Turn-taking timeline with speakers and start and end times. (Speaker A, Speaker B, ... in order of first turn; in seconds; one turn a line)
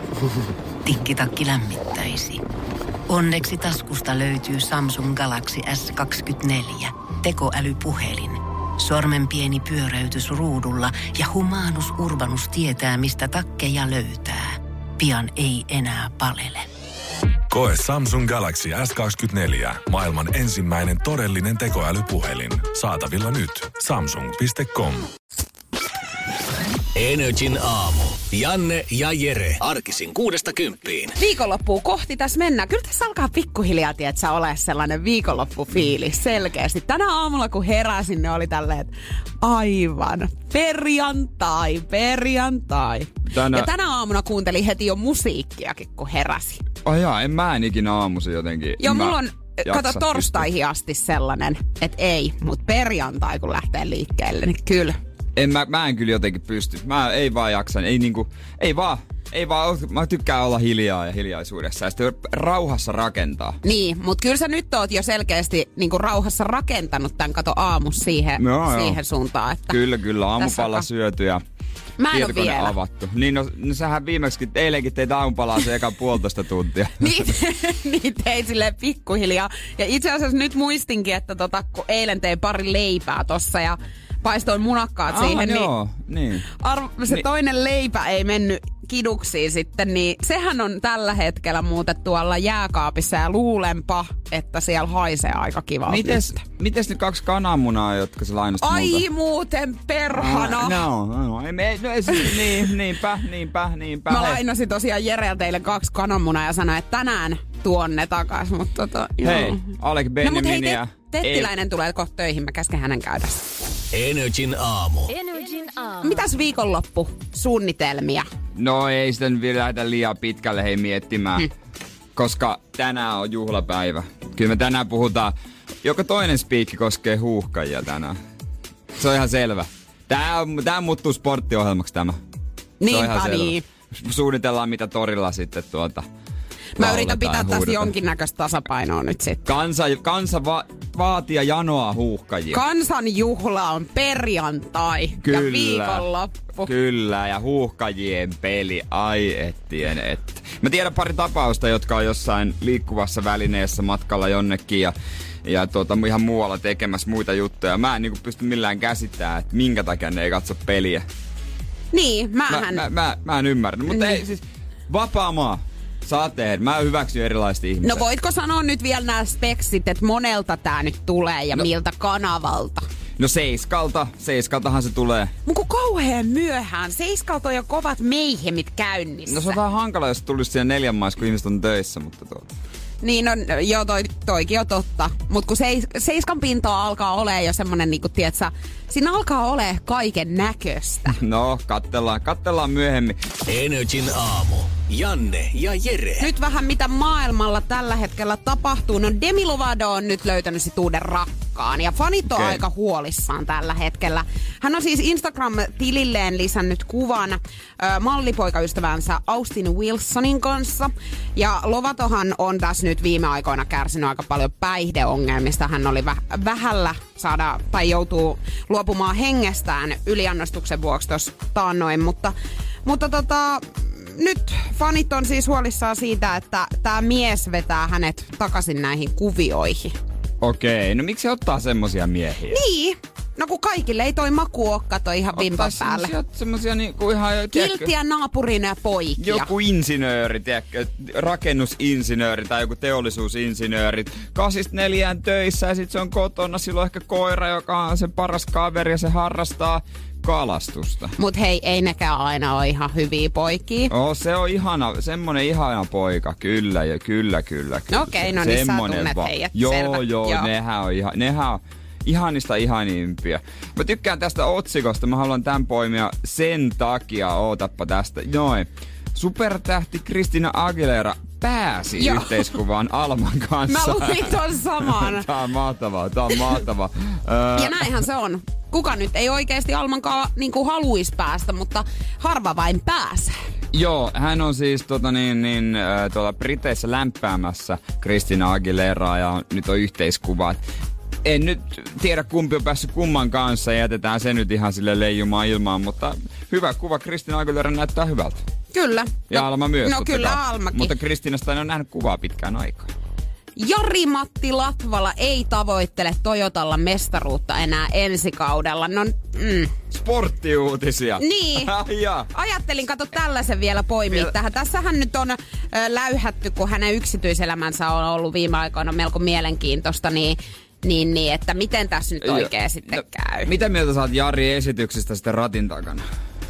Speaker A: 0.8-2.4
Speaker A: 3.1-16.7
Speaker B: 17.5-25.1
Speaker C: 26.9-31.1
Speaker D: 31.1-38.9
Speaker D: 39.4-46.6
Speaker E: 43.2-43.7
Speaker E: 46.8-50.4
Speaker D: 48.8-55.0
Speaker E: 55.4-63.6
Speaker D: 63.6-69.8
Speaker E: 68.4-69.0
Speaker E: 69.7-71.4
Speaker D: 70.4-70.8
Speaker D: 72.0-72.7
Speaker E: 72.1-77.3
Speaker D: 77.0-85.7
Speaker E: 85.1-86.5
Speaker D: 86.5-96.4
Speaker E: 95.9-99.0
Speaker D: 98.6-100.8
Speaker E: 100.1-104.4
Speaker D: 102.1-102.7
Speaker D: 104.1-109.7
Speaker E: 109.2-111.5
Speaker D: 110.2-113.4
Speaker C: 113.9-115.2
Speaker D: 116.0-118.2
Speaker E: 118.5-121.5
Speaker E: 122.2-128.2
Speaker E: 129.0-132.2
Speaker D: 132.8-133.6
Speaker E: 132.9-136.0
Speaker D: 136.8-139.4
Speaker E: 136.8-137.9
Speaker E: 139.4-142.6
Speaker D: 142.5-146.7
Speaker E: 145.2-161.1
Speaker D: 161.9-162.8
Speaker E: 162.5-168.0
Speaker D: 163.9-164.2
Speaker D: 167.8-172.8
Speaker E: 173.2-175.3
Speaker D: 175.4-179.6
Speaker E: 179.3-182.4
Speaker D: 183.0-191.2
Speaker E: 191.1-193.2
Speaker C: 193.5-196.3
Speaker D: 196.2-222.3
Speaker E: 202.3-202.6
Speaker D: 222.8-229.9
Speaker E: 230.4-232.6
Speaker D: 232.5-236.1
Speaker E: 235.3-237.9
Speaker D: 237.5-239.5
Speaker E: 239.2-251.1
Speaker D: 251.2-253.9
Speaker E: 253.9-277.9
Speaker D: 257.9-260.5
Speaker D: 272.0-272.5
Speaker D: 273.7-275.3
Speaker D: 277.5-283.3
Speaker E: 283.7-290.6
Speaker E: 291.2-298.4
Speaker D: 298.7-300.9
Speaker E: 299.3-302.9
Speaker D: 303.6-309.7
Speaker E: 309.9-312.3
Speaker D: 311.2-311.7
Speaker D: 312.3-323.5
Speaker E: 322.2-326.0